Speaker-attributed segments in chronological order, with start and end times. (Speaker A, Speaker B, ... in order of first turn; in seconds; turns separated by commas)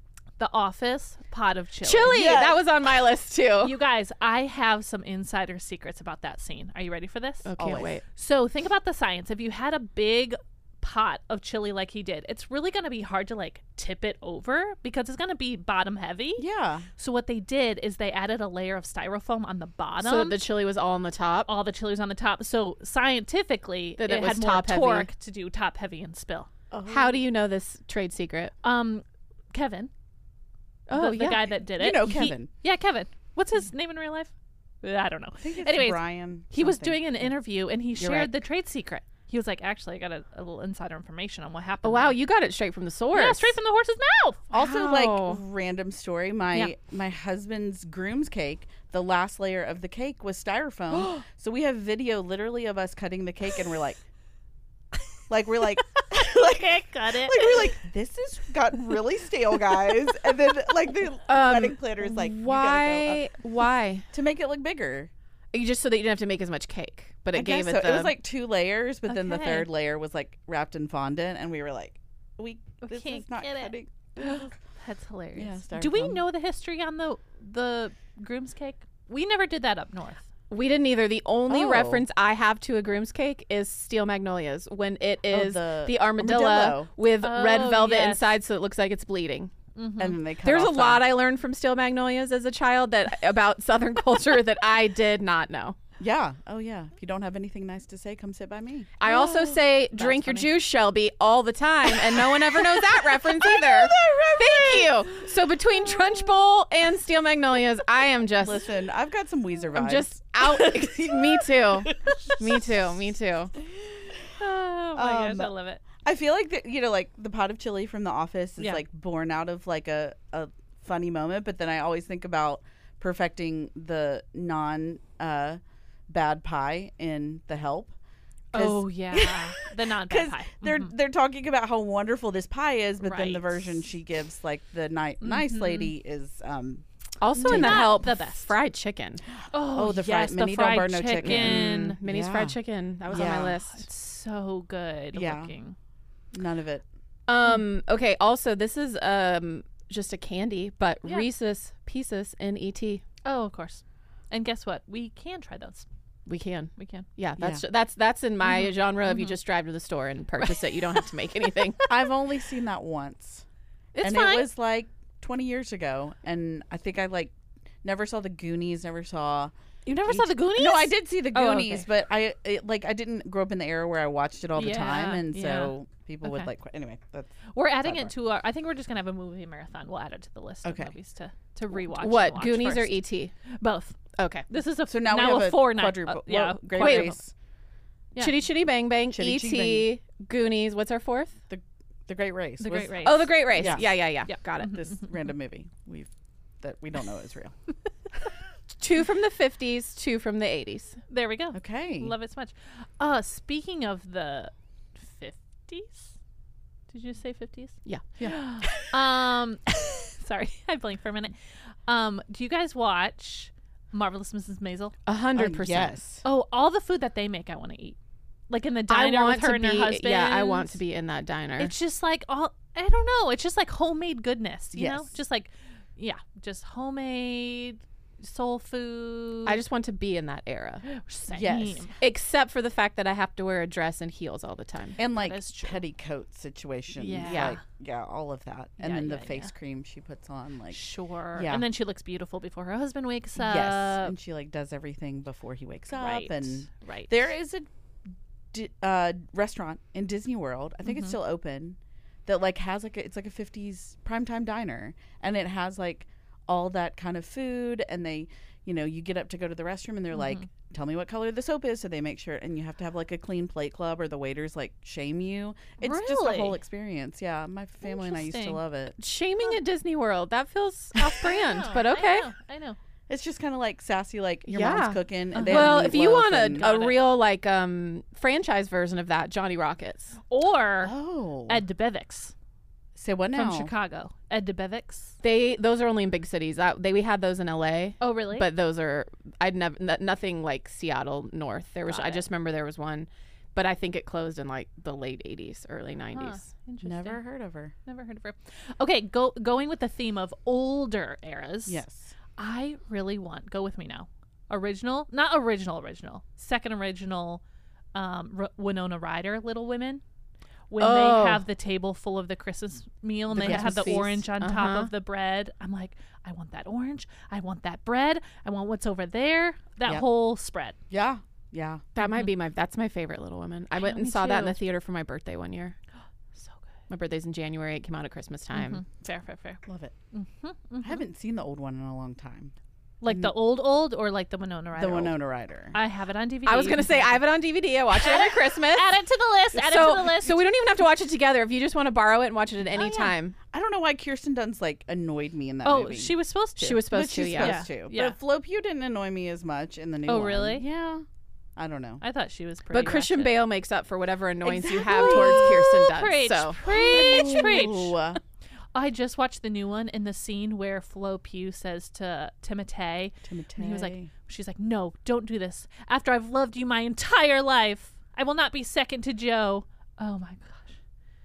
Speaker A: 0.4-2.4, Speaker B: 1.8-3.8, Speaker C: 2.0-2.6, Speaker A: 3.6-7.5, Speaker B: 7.4-8.0, Speaker C: 7.6-8.0, Speaker A: 8.1-20.4, Speaker C: 16.4-16.9, Speaker B: 20.0-21.5, Speaker A: 21.5-26.5, Speaker B: 24.0-25.1, Speaker C: 26.7-27.2, Speaker B: 26.9-28.5, Speaker A: 28.6-29.9, Speaker B: 30.9-31.4, Speaker A: 30.9-42.1, Speaker C: 31.8-32.5, Speaker C: 35.4-37.2, Speaker B: 38.0-38.4, Speaker B: 41.8-43.6, Speaker A: 43.1-44.5, Speaker C: 44.5-54.0, Speaker B: 44.5-45.4, Speaker C: 55.3-63.3, Speaker A: 56.0-57.7, Speaker B: 61.3-64.0, Speaker C: 64.1-65.1, Speaker B: 65.5-68.1, Speaker C: 67.3-74.5, Speaker A: 69.1-69.7, Speaker A: 72.8-80.3, Speaker C: 75.3-76.2, Speaker B: 80.5-89.5, Speaker C: 81.5-82.0, Speaker C: 85.3-86.9, Speaker A: 87.2-88.4, Speaker A: 89.7-90.2, Speaker C: 90.0-91.1, Speaker B: 90.4-95.8, Speaker C: 96.0-99.3, Speaker B: 99.0-108.7, Speaker A: 99.1-100.5, Speaker C: 102.3-105.2, Speaker C: 108.4-112.7, Speaker B: 109.7-113.5, Speaker A: 114.4-115.8, Speaker C: 114.9-127.9, Speaker A: 128.5-130.9, Speaker C: 128.5-136.8, Speaker A: 133.0-133.7, Speaker A: 135.2-135.9, Speaker B: 137.2-139.2, Speaker A: 137.3-138.5, Speaker C: 137.5-137.8, Speaker A: 139.5-142.0, Speaker C: 139.6-143.6, Speaker B: 141.2-143.9, Speaker A: 143.1-145.7, Speaker C: 145.1-145.5, Speaker C: 146.3-146.8, Speaker B: 147.3-153.0, Speaker A: 153.2-155.9, Speaker B: 156.3-161.9, Speaker A: 156.8-157.1, Speaker A: 158.4-159.4, Speaker A: 160.4-161.0, Speaker C: 161.8-163.4, Speaker A: 163.9-164.5, Speaker C: 164.0-169.5, Speaker A: 169.9-171.9, Speaker C: 170.0-178.1, Speaker A: 174.6-176.5, Speaker A: 177.5-183.0, Speaker C: 180.6-180.9, Speaker B: 181.8-183.3, Speaker A: 183.5-187.2, Speaker B: 184.2-184.4, Speaker C: 184.9-187.3, Speaker B: 186.8-187.1, Speaker B: 188.2-191.4, Speaker C: 189.1-189.9, Speaker C: 191.5-194.0, Speaker A: 192.6-194.9, Speaker B: 193.0-194.8, Speaker C: 194.6-196.1, Speaker C: 196.6-197.5, Speaker B: 198.8-201.0, Speaker A: 201.1-206.1, Speaker C: 201.5-202.1, Speaker A: 206.9-211.3, Speaker C: 208.2-209.1, Speaker A: 211.9-214.9, Speaker B: 215.1-216.0, Speaker C: 215.4-216.2, Speaker A: 216.2-218.0, Speaker A: 218.5-220.8, Speaker B: 218.9-221.7, Speaker A: 221.6-229.6, Speaker C: 224.7-225.1, Speaker B: 229.4-230.9, Speaker A: 230.9-231.9, Speaker C: 231.3-231.9, Speaker B: 232.0-235.0, Speaker C: 235.0-240.8, Speaker A: 235.0-235.8, Speaker A: 237.0-237.6, Speaker B: 237.2-237.6, Speaker A: 238.8-239.5, Speaker A: 240.7-244.1, Speaker C: 241.3-241.7, Speaker C: 243.4-247.7, Speaker A: 246.0-247.1, Speaker C: 248.5-268.9, Speaker A: 250.8-251.1, Speaker A: 260.1-260.4, Speaker A: 265.8-266.6, Speaker A: 267.8-268.6, Speaker B: 269.0-272.3, Speaker A: 270.9-272.8, Speaker C: 273.1-276.7, Speaker B: 274.5-280.2, Speaker A: 275.3-277.1, Speaker A: 280.3-280.9, Speaker C: 280.8-281.6, Speaker A: 281.5-282.3, Speaker C: 282.9-283.7, Speaker A: 283.3-285.2, Speaker B: 285.2-296.4, Speaker A: 288.0-288.5, Speaker A: 291.9-292.2, Speaker A: 296.1-297.2, Speaker C: 296.8-297.7, Speaker A: 297.9-301.8, Speaker C: 301.6-302.1, Speaker A: 302.4-307.4, Speaker A: 307.9-310.0, Speaker A: 310.7-320.8, Speaker B: 310.8-311.4, Speaker B: 313.3-314.9, Speaker C: 313.4-314.1, Speaker C: 320.9-321.8, Speaker B: 321.9-325.8, Speaker A: 323.8-324.6, Speaker A: 326.3-326.6, Speaker B: 326.9-328.8, Speaker A: 328.5-329.6, Speaker C: 329.6-329.9, Speaker A: 330.1-331.0, Speaker C: 330.8-332.5, Speaker A: 333.0-335.1, Speaker C: 333.1-333.3, Speaker C: 334.8-335.8, Speaker A: 335.7-337.2, Speaker B: 336.4-339.0, Speaker A: 337.9-340.5, Speaker B: 339.5-343.4, Speaker C: 342.7-351.0, Speaker A: 345.6-348.2, Speaker B: 346.6-347.6, Speaker A: 350.1-350.6, Speaker C: 351.6-352.0, Speaker A: 352.0-353.4, Speaker B: 352.7-357.5, Speaker A: 354.4-358.0, Speaker C: 354.6-355.6, Speaker C: 356.7-358.2, Speaker A: 358.7-370.8, Speaker C: 363.2-364.1